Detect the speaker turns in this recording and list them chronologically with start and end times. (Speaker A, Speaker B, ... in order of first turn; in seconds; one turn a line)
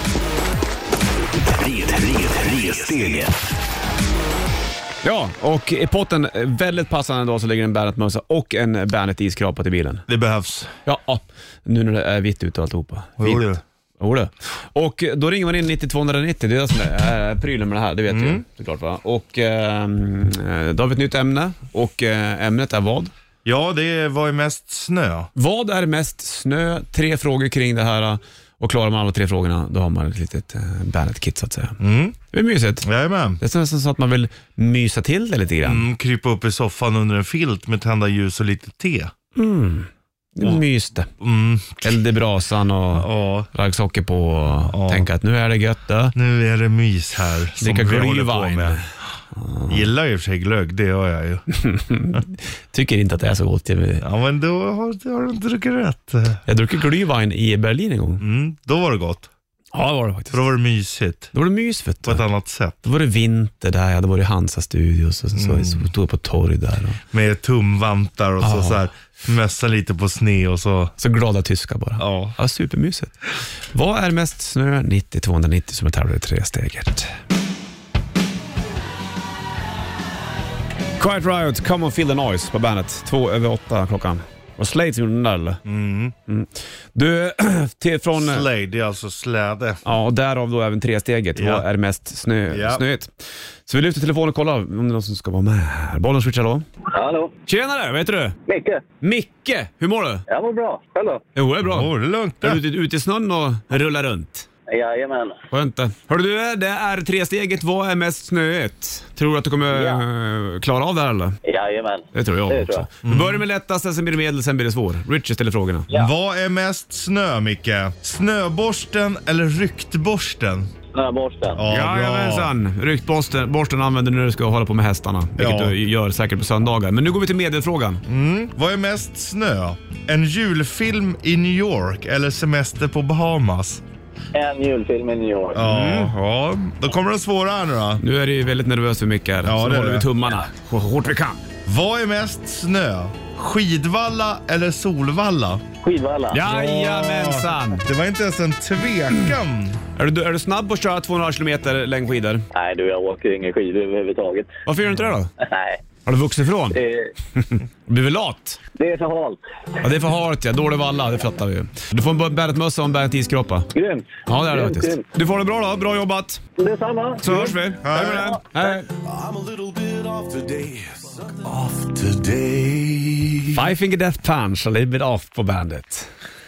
Speaker A: 1.5-3.4
Speaker B: 5.0-10.1
Speaker C: 10.1-10.7
Speaker B: 10.9-23.1
Speaker C: 13.2-13.6
Speaker C: 18.1-18.4
Speaker C: 23.4-25.3
Speaker B: 25.4-31.8
Speaker C: 31.8-32.2
Speaker B: 32.3-32.9
Speaker C: 32.8-33.4
Speaker B: 33.4-35.9
Speaker C: 35.6-39.1
Speaker B: 39.4-41.1
Speaker C: 41.2-42.0
Speaker B: 41.8-46.1
Speaker C: 43.0-43.5
Speaker C: 44.7-45.1
Speaker C: 46.1-48.8
Speaker B: 47.6-49.9
Speaker C: 49.7-51.5
Speaker B: 51.5-54.0
Speaker C: 54.0-56.4
Speaker B: 56.5-58.2
Speaker C: 58.2-59.3
Speaker B: 59.7-60.4
Speaker C: 60.3-61.3
Speaker B: 61.3-62.2
Speaker C: 62.0-62.8
Speaker B: 62.8-67.0
Speaker C: 65.4-65.9
Speaker C: 67.1-71.0
Speaker B: 68.4-68.8
Speaker B: 71.0-73.2
Speaker C: 72.0-72.4
Speaker B: 73.7-77.2
Speaker B: 81.0-85.6
Speaker C: 85.6-86.1
Speaker B: 86.3-88.5
Speaker C: 88.1-89.8
Speaker B: 89.8-93.1
Speaker C: 91.4-91.6
Speaker C: 92.5-92.8
Speaker B: 93.7-96.6
Speaker D: 96.9-97.3
Speaker B: 97.5-98.4
Speaker D: 98.5-98.8
Speaker B: 99.0-100.2
Speaker D: 100.3-101.2
Speaker B: 101.4-104.5
Speaker C: 101.6-102.6
Speaker D: 104.7-105.4
Speaker B: 105.5-111.4
Speaker D: 109.7-110.0
Speaker D: 111.5-112.9
Speaker B: 112.1-115.9
Speaker C: 113.0-113.4
Speaker C: 115.9-120.7
Speaker D: 120.9-121.6
Speaker C: 121.5-122.5
Speaker B: 121.7-128.0
Speaker C: 125.4-125.8
Speaker C: 128.1-133.8
Speaker D: 134.3-135.6
Speaker C: 135.5-138.0
Speaker B: 135.6-136.1
Speaker B: 138.0-141.4
Speaker C: 139.4-140.1
Speaker C: 141.7-145.6
Speaker D: 145.8-146.4
Speaker B: 146.3-147.8
Speaker C: 146.4-149.8
Speaker B: 150.0-152.5
Speaker D: 152.5-154.5
Speaker B: 154.7-155.3
Speaker D: 155.4-155.8
Speaker B: 156.1-156.8
Speaker D: 156.7-157.1
Speaker B: 157.4-158.6
Speaker D: 158.8-159.4
Speaker B: 159.8-163.7
Speaker D: 163.7-165.0
Speaker B: 164.3-166.4
Speaker D: 166.6-168.3
Speaker B: 167.2-168.9
Speaker C: 167.8-168.3
Speaker A: 169.0-173.1
Speaker C: 172.1-172.7
Speaker B: 173.5-176.1